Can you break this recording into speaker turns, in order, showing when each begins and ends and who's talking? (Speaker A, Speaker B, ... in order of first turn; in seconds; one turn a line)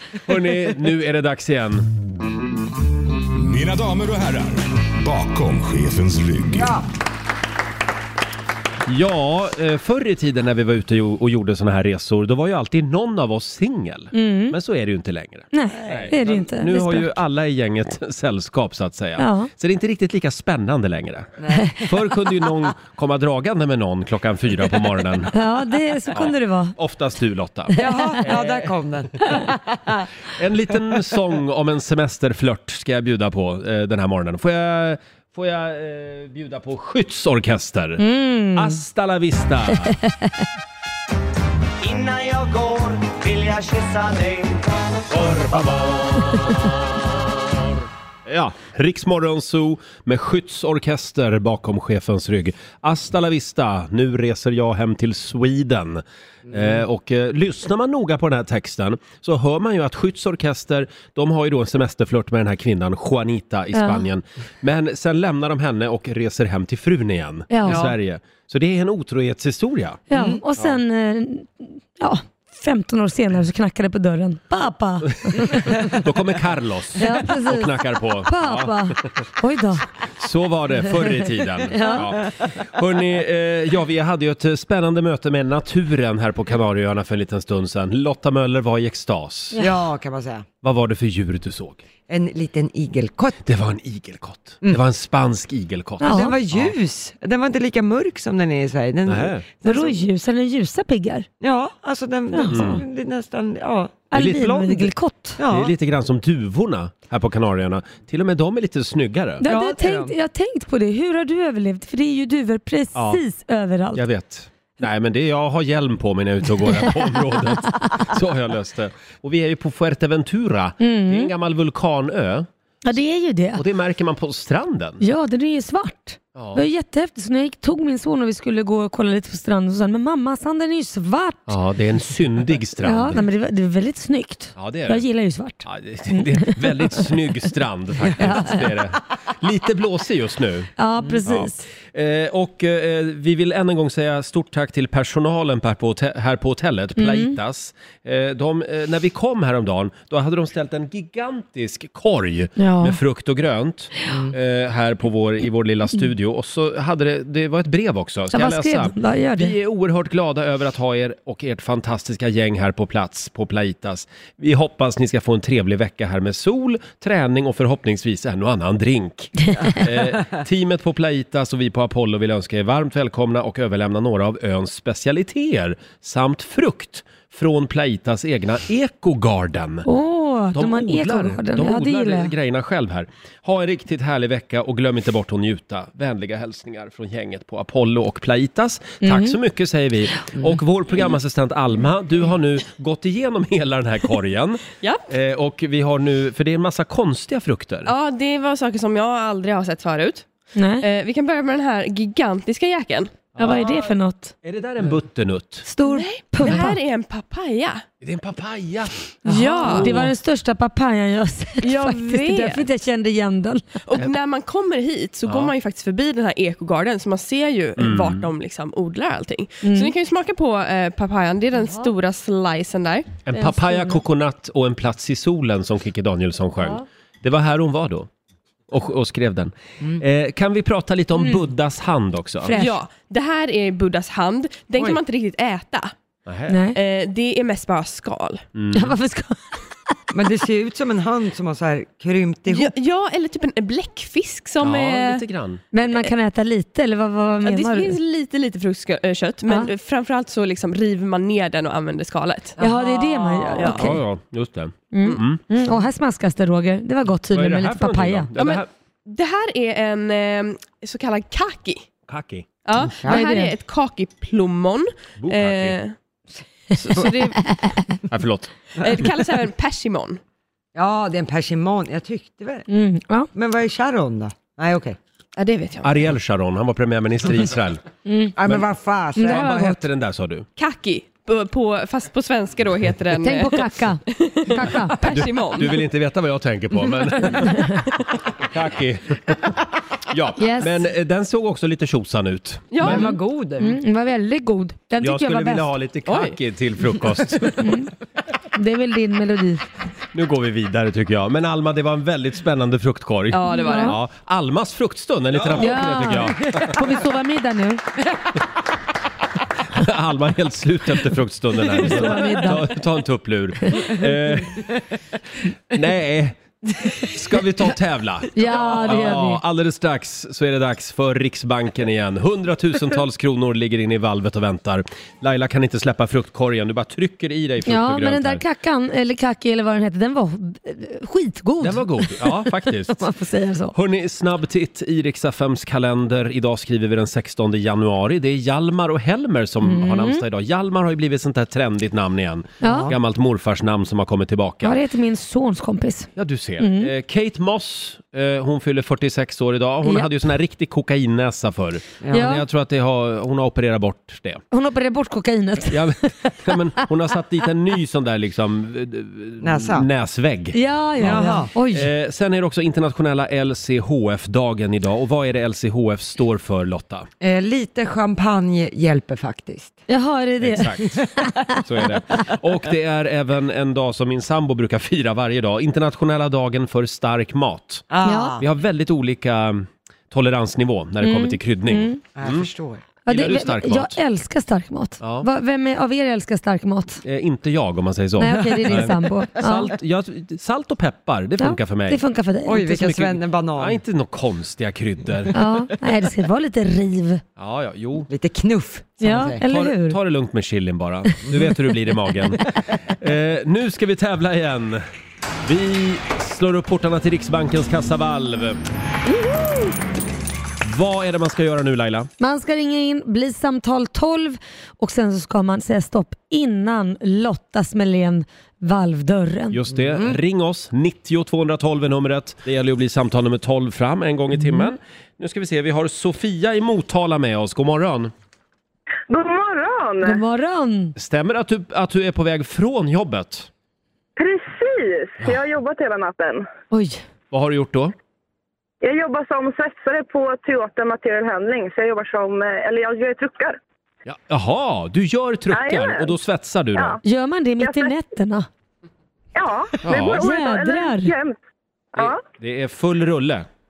Speaker A: 0.2-1.9
Speaker B: 3.3-6.8
Speaker C: 6.5-6.8
Speaker A: 8.9-25.3
Speaker D: 14.1-14.6
Speaker D: 15.5-17.1
Speaker D: 19.2-19.5
Speaker C: 21.4-21.8
Speaker D: 25.3-26.7
Speaker A: 26.1-28.7
Speaker C: 27.7-30.0
Speaker A: 30.3-39.9
Speaker D: 38.0-38.8
Speaker E: 41.8-45.9
Speaker A: 45.2-45.8
Speaker A: 48.3-70.0
Speaker D: 63.7-64.0
Speaker D: 67.5-67.8
Speaker C: 67.7-67.9
Speaker D: 70.1-75.9
Speaker C: 70.1-70.4
Speaker A: 75.0-78.7
Speaker D: 77.0-79.8
Speaker A: 80.2-89.6
Speaker D: 81.7-82.1
Speaker C: 89.6-90.5
Speaker A: 90.6-91.8
Speaker C: 92.1-93.4
Speaker A: 93.4-96.7
Speaker D: 96.0-96.3
Speaker C: 96.0-100.0
Speaker A: 99.0-99.5
Speaker D: 99.6-101.3
Speaker C: 101.4-104.1
Speaker D: 102.3-102.6
Speaker A: 102.5-102.8
Speaker D: 104.1-105.4
Speaker A: 104.1-104.9
Speaker C: 105.4-105.7
Speaker A: 105.5-109.4
Speaker D: 109.4-114.0
Speaker C: 109.4-110.2
Speaker A: 112.9-113.2
Speaker A: 113.9-122.5
Speaker D: 120.8-121.3
Speaker D: 122.8-123.6
Speaker A: 123.5-125.0
Speaker D: 125.0-131.5
Speaker A: 126.3-126.7
Speaker A: 131.5-133.2
Speaker D: 132.8-137.1
Speaker A: 134.6-135.0
Speaker A: 135.6-179.9
Speaker D: 138.1-138.8
Speaker D: 140.8-141.6
Speaker D: 147.0-147.3
Speaker D: 152.6-153.0
Speaker D: 158.3-159.5
Speaker D: 169.5-169.8
Speaker D: 179.8-182.3
Speaker A: 180.5-197.9
Speaker D: 189.0-189.4
Speaker F: 197.8-200.2
Speaker D: 200.5-200.8
Speaker F: 200.8-203.2
Speaker A: 203.4-203.7
Speaker D: 203.4-204.3
Speaker A: 204.4-205.7
Speaker D: 205.7-206.8
Speaker F: 205.8-207.8
Speaker A: 208.0-209.1
Speaker F: 209.2-209.9
Speaker D: 209.2-213.6
Speaker C: 209.3-209.7
Speaker A: 209.7-210.1
Speaker F: 211.6-212.6
Speaker F: 213.8-223.1
Speaker A: 215.2-215.5
Speaker A: 217.8-218.2
Speaker D: 219.6-219.9
Speaker A: 223.2-228.1
Speaker D: 223.3-224.0
Speaker A: 228.7-232.6
Speaker D: 232.4-232.8
Speaker F: 232.6-235.9
Speaker A: 236.3-236.6
Speaker D: 236.5-236.8
Speaker F: 236.7-238.4
Speaker A: 238.5-238.9
Speaker D: 238.7-239.4
Speaker C: 240.1-242.7
Speaker F: 242.5-245.2
Speaker A: 244.6-245.6
Speaker D: 245.7-248.0
Speaker F: 247.4-252.6
Speaker C: 252.6-253.7
Speaker D: 252.6-254.0
Speaker F: 253.5-253.9
Speaker A: 253.6-255.4
Speaker D: 254.9-258.3
Speaker A: 257.3-258.7
Speaker F: 258.4-261.9
Speaker A: 262.1-262.5
Speaker F: 262.6-265.9
Speaker C: 263.0-263.2
Speaker D: 263.1-263.5
Speaker A: 265.2-265.8
Speaker F: 266.8-267.4
Speaker D: 267.5-267.9
Speaker A: 268.1-268.5
Speaker F: 268.8-270.2
Speaker C: 270.7-272.6
Speaker D: 272.7-273.3
Speaker C: 273.3-275.0
Speaker F: 275.4-276.0
Speaker A: 275.8-277.8
Speaker D: 278.1-278.3
Speaker C: 278.4-279.8
Speaker A: 279.1-280.4
Speaker F: 280.6-285.8
Speaker D: 283.2-285.1
Speaker A: 285.1-287.6
Speaker D: 287.4-287.8
Speaker A: 288.4-289.5
Speaker A: 290.1-293.1
Speaker D: 290.4-290.9
Speaker F: 292.7-293.1
Speaker C: 292.8-293.7
Speaker D: 292.9-295.7
Speaker A: 295.0-297.7
Speaker F: 296.1-296.3
Speaker D: 297.6-297.9
Speaker D: 298.5-299.6
Speaker A: 300.1-306.7
Speaker F: 303.3-303.9
Speaker D: 303.5-303.9
Speaker D: 305.5-307.8
Speaker A: 309.7-314.7
Speaker D: 311.7-312.7
Speaker A: 315.7-328.4
Speaker D: 318.3-319.4
Speaker D: 327.6-333.7
Speaker A: 331.6-333.1
Speaker A: 333.7-344.8
Speaker D: 339.6-340.2
Speaker C: 342.6-342.9
Speaker D: 342.6-342.9
Speaker D: 344.6-346.1
Speaker A: 346.2-354.4
Speaker D: 346.6-346.9
Speaker D: 349.8-350.1
Speaker C: 352.0-352.4
Speaker D: 352.1-352.4
Speaker D: 354.5-356.3
Speaker A: 355.7-367.1
Speaker C: 359.4-359.9
Speaker D: 360.5-361.9
Speaker C: 361.0-361.5
Speaker C: 367.2-369.8
Speaker D: 369.9-370.8
Speaker A: 370.4-370.9
Speaker A: 371.5-377.9
Speaker C: 377.9-378.4
Speaker D: 378.0-378.4
Speaker A: 378.4-382.5
Speaker D: 381.0-382.0
Speaker C: 382.1-382.8
Speaker A: 383.1-384.0
Speaker D: 383.1-387.0
Speaker A: 385.0-385.3
Speaker A: 387.0-395.4
Speaker D: 388.2-389.7
Speaker C: 388.3-388.9
Speaker D: 391.4-392.7
Speaker C: 392.4-393.8
Speaker D: 395.3-397.2
Speaker A: 397.4-398.1
Speaker C: 398.1-399.4
Speaker D: 399.0-400.0
Speaker A: 399.4-404.8
Speaker A: 405.4-408.6
Speaker A: 410.6-412.1
Speaker D: 412.2-419.6
Speaker A: 419.5-428.1
Speaker C: 419.8-420.2
Speaker D: 424.4-424.7
Speaker G: 429.1-430.2
Speaker D: 430.0-430.9
Speaker A: 430.9-433.5
Speaker G: 434.2-436.5
Speaker D: 436.7-437.0
Speaker A: 437.3-437.9
Speaker G: 438.8-443.6
Speaker A: 444.1-447.0
Speaker G: 445.5-446.1
Speaker D: 447.0-448.5
Speaker G: 447.6-447.9
Speaker G: 449.3-451.4
Speaker A: 449.8-450.2
Speaker D: 450.2-451.1
Speaker A: 451.9-453.5